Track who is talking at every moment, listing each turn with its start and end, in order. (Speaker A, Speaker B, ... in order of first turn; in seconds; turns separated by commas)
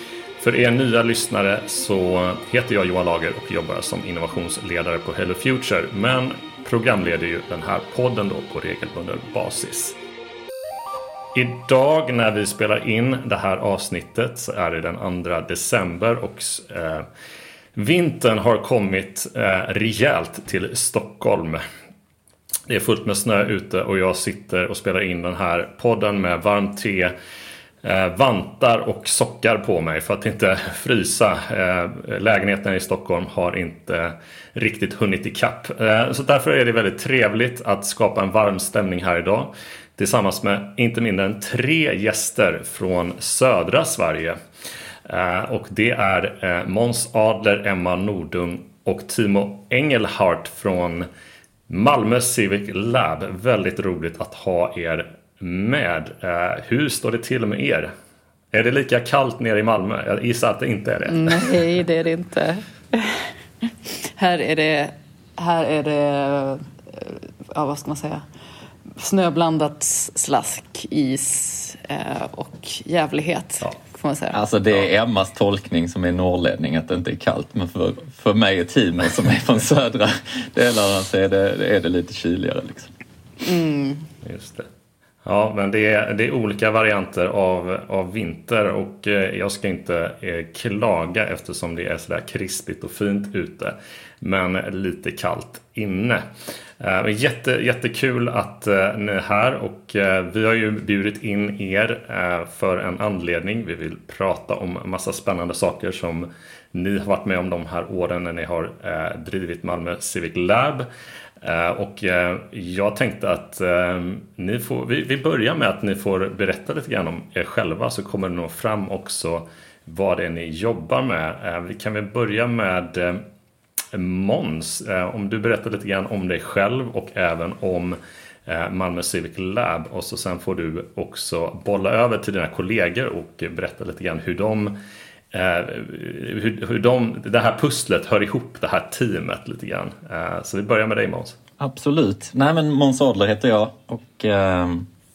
Speaker A: 0.4-9.9, Speaker A: 11.3-17.1, Speaker A: 17.8-21.6, Speaker A: 22.7-27.1, Speaker A: 27.8-44.4, Speaker A: 45.1-51.1, Speaker A: 51.7-57.9, Speaker A: 58.5-61.6, Speaker B: 61.1-68.2, Speaker B: 69.0-74.4, Speaker C: 74.3-82.9, Speaker B: 83.4-84.0, Speaker A: 84.2-84.7, Speaker A: 85.2-96.2, Speaker A: 96.8-110.9, Speaker A: 111.4-123.2, Speaker A: 123.9-134.8, Speaker A: 135.3-141.4, Speaker C: 141.6-144.9